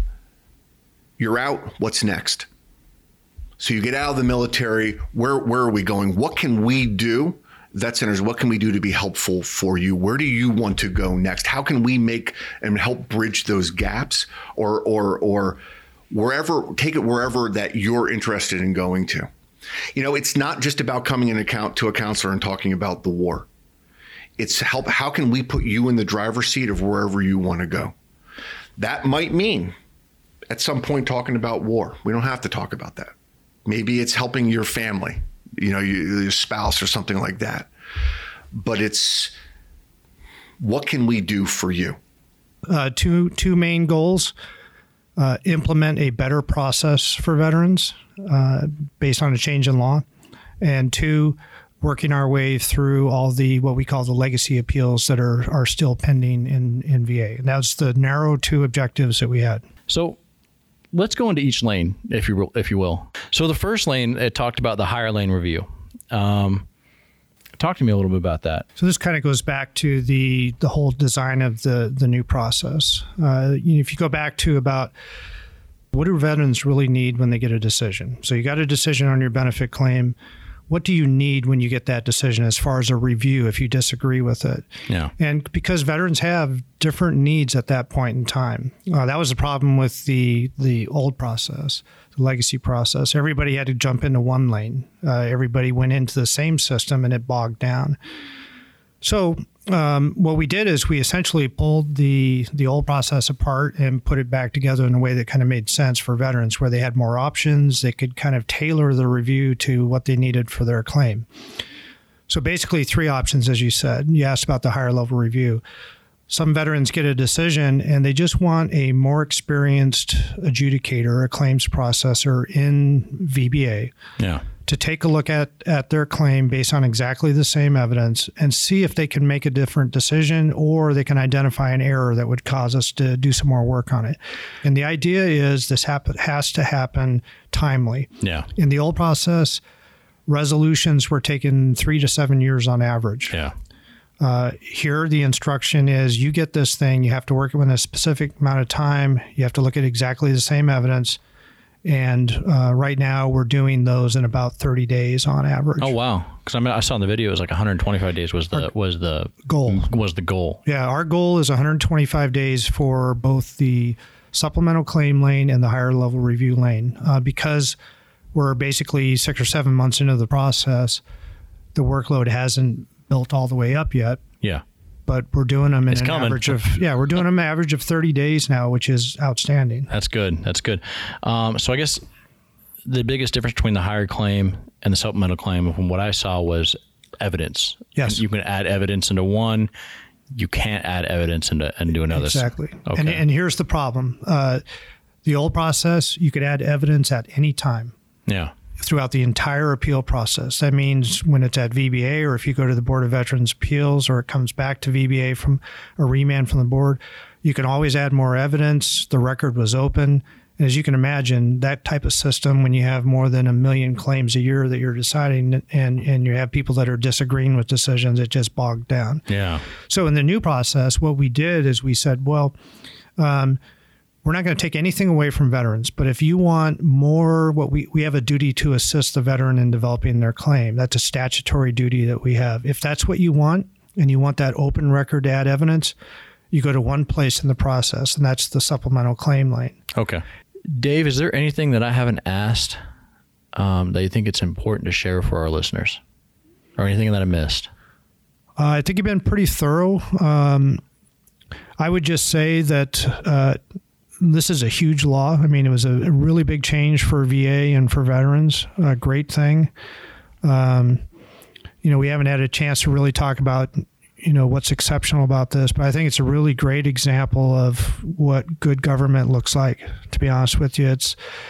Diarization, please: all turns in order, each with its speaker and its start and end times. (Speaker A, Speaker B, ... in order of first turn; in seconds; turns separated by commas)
Speaker A: 1.2-2.5, Speaker A: 3.6-15.6, Speaker A: 16.1-19.3, Speaker A: 19.9-23.5, Speaker A: 24.4-27.9, Speaker A: 28.8-29.7, Speaker A: 30.5-33.1, Speaker A: 33.6-37.7, Speaker A: 38.5-39.3, Speaker A: 40.6-42.0, Speaker B: 42.7-44.3, Speaker B: 45.2-50.0, Speaker B: 50.6-59.6, Speaker C: 59.9-60.2, Speaker C: 60.9-66.7, Speaker C: 67.6-68.7, Speaker B: 68.8-74.9, Speaker B: 75.9-80.2, Speaker B: 80.7-84.7, Speaker B: 85.2-98.0, Speaker B: 99.0-111.3, Speaker B: 112.3-115.6, Speaker B: 116.3-123.9, Speaker C: 124.2-124.4, Speaker B: 124.7-139.6, Speaker C: 138.2-138.5, Speaker B: 140.3-143.3, Speaker C: 143.3-143.5, Speaker B: 144.2-151.2, Speaker B: 151.8-155.9, Speaker C: 155.8-160.6, Speaker B: 159.4-159.9, Speaker B: 160.7-167.8, Speaker B: 168.3-171.0, Speaker B: 171.7-174.2, Speaker B: 175.1-179.9, Speaker C: 175.9-176.8, Speaker C: 179.9-182.0, Speaker C: 182.8-189.7, Speaker B: 187.9-188.2, Speaker C: 190.3-193.2, Speaker B: 192.1-194.6, Speaker B: 195.2-197.9, Speaker C: 198.3-198.5, Speaker B: 198.8-219.2, Speaker C: 219.3-219.6, Speaker B: 219.9-222.5, Speaker B: 223.2-223.6, Speaker B: 224.2-235.9, Speaker B: 236.5-239.8, Speaker C: 239.9-242.8, Speaker C: 243.5-246.0, Speaker C: 246.8-247.7, Speaker B: 248.6-250.8, Speaker B: 251.8-253.6, Speaker B: 254.2-259.7, Speaker B: 260.4-261.0, Speaker B: 261.8-271.2